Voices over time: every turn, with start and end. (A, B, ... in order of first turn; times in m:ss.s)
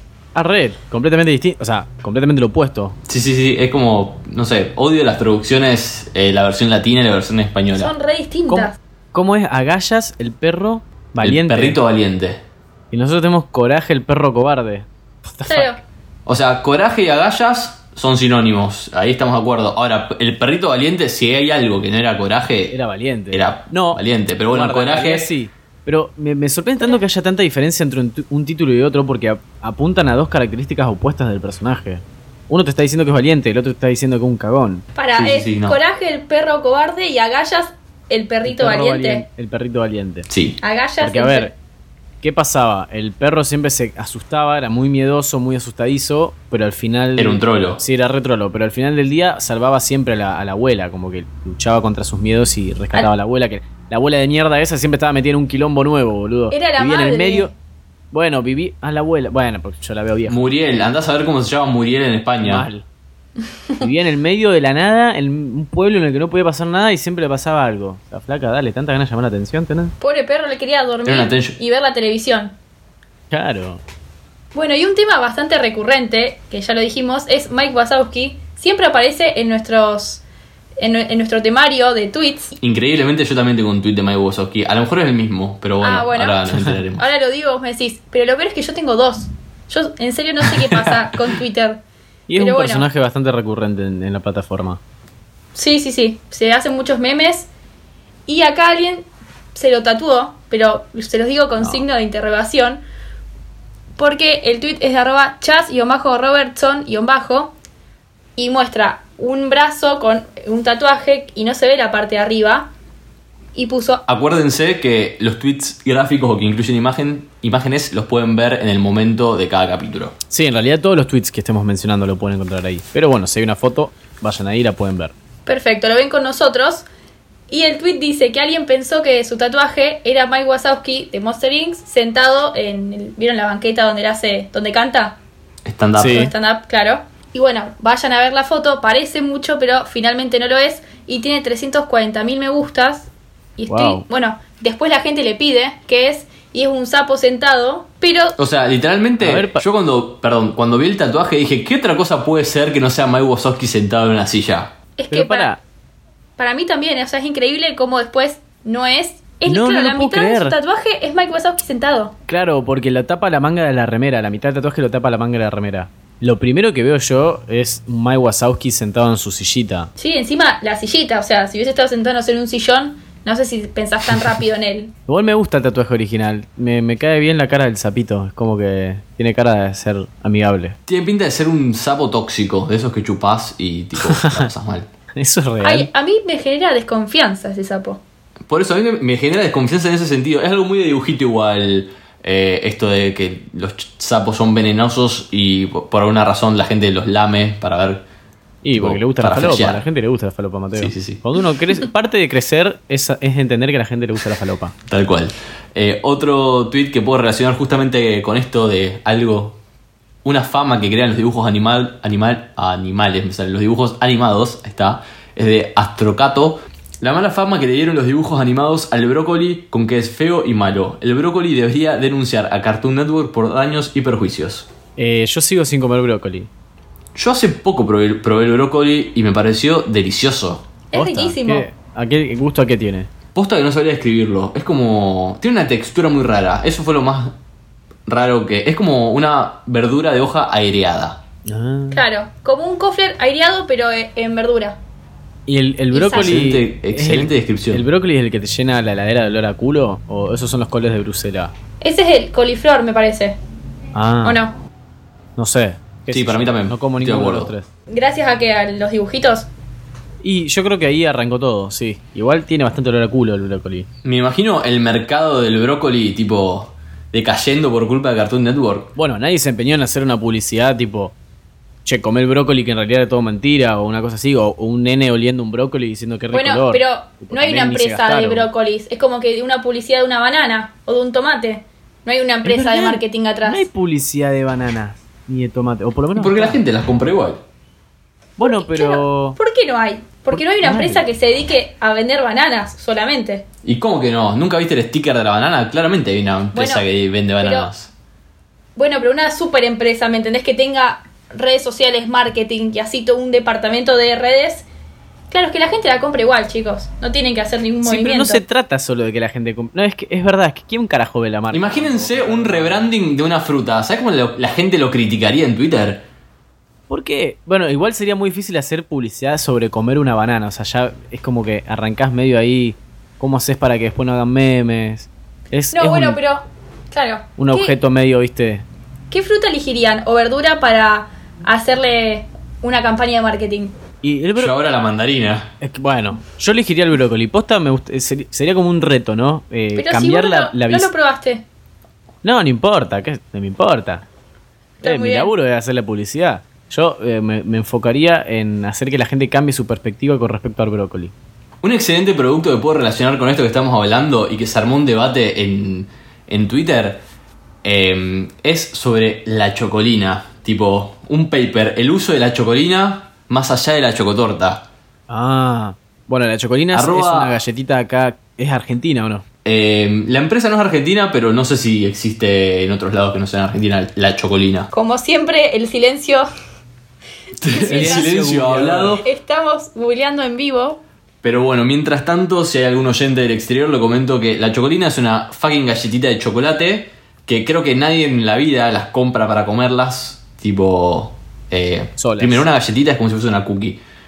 0:00.3-0:03.0 A
0:03.1-0:07.9 B
0:07.7-0:08.8 C
0:08.5-0:11.8 A
0:11.2-0:12.4 B
0:12.9-0:15.8 A
0:15.5-0:15.8 C
0:16.2-0:22.8 B
0:22.7-0:34.8 A
0:23.3-0:25.3 B
0:35.0-0:39.2 C
0:35.1-0:35.8 B
0:38.4-0:40.3 A
0:40.3-0:40.6 B
0:40.6-0:41.5 C
0:41.0-0:41.5 A
0:42.2-0:57.5 A
0:47.2-0:47.8 B
0:56.5-0:57.5 C
0:58.1-1:00.5 A
1:00.3-1:02.7 B
1:02.4-1:02.8 A
1:03.8-1:09.9 A
1:10.0-1:12.5 C
1:11.0-1:11.6 B
1:13.3-1:13.8 A
1:14.5-1:20.2 C
1:20.8-1:22.5 C
1:22.6-1:27.1 B
1:25.8-1:31.8 C
1:30.4-1:31.2 B
1:32.3-1:34.8 A
1:32.3-1:32.9 C
1:35.5-1:37.5 C
1:38.3-1:42.8 C
1:44.0-1:47.5 C
1:48.4-1:52.7 C
1:53.5-1:54.0 C
1:54.1-2:00.1 B
2:00.3-2:05.1 A
2:05.4-2:06.8 C
2:07.5-2:15.2 C
2:15.6-2:16.3 B
2:16.0-2:16.3 A
2:16.0-2:28.4 C
2:23.7-2:24.0 A
2:28.4-2:34.7 B
2:29.2-2:29.6 A
2:35.0-2:35.5 C
2:35.1-2:35.6 A
2:36.4-2:42.2 C
2:39.4-2:40.6 A
2:42.3-2:49.9 A
2:50.0-2:54.9 C
2:55.1-3:00.8 A
3:00.9-3:04.9 B
3:04.0-3:04.5 A
3:05.2-3:05.9 A
3:05.6-3:08.0 C
3:08.5-3:18.0 B
3:18.6-3:24.7 A
3:18.8-3:19.8 B
3:20.7-3:21.2 B
3:24.9-3:29.6 B
3:30.2-3:44.7 B
3:45.0-3:46.5 A
3:47.1-3:50.6 B
3:50.9-3:51.7 C
3:50.9-3:53.1 A
3:53.3-3:57.4 B
3:58.1-4:01.2 B
4:01.4-4:02.0 A
4:01.9-4:04.8 C
4:05.5-4:11.5 A
4:05.9-4:06.4 C
4:06.1-4:07.8 B
4:11.8-4:13.4 C
4:13.9-4:14.4 A
4:14.2-4:14.6 C
4:15.4-4:17.7 A
4:16.1-4:17.5 B
4:17.9-4:19.5 C
4:20.2-4:23.9 A
4:24.0-4:28.9 B
4:29.0-4:31.2 A
4:31.8-4:38.5 A
4:36.3-4:43.7 C
4:42.4-4:46.6 A
4:46.2-4:47.4 B
4:48.4-4:49.4 A
4:48.4-4:53.4 C
4:50.3-4:51.0 A
4:53.6-4:57.9 B
4:56.5-4:56.8 C
4:57.4-4:57.7 C
4:58.8-5:04.7 C
5:05.3-5:08.4 C
5:07.8-5:12.9 A
5:11.5-5:16.0 B
5:16.9-5:26.2 A
5:25.7-5:27.8 C
5:27.4-5:28.6 A
5:29.1-5:33.8 C
5:34.0-5:34.5 A
5:34.4-5:35.5 B
5:35.6-5:40.9 A
5:39.8-5:41.4 C
5:42.2-5:44.0 A
5:44.8-5:45.3 C
5:44.8-5:51.1 A
5:51.6-5:57.0 B
5:57.6-6:04.6 B
6:05.1-6:09.2 A
6:06.7-6:07.4 B
6:09.4-6:14.7 B
6:14.7-6:16.3 C
6:17.4-6:19.0 B
6:17.4-6:18.3 C
6:17.6-6:19.0 A
6:19.0-6:20.8 C
6:21.2-6:33.8 B
6:32.0-6:32.5 A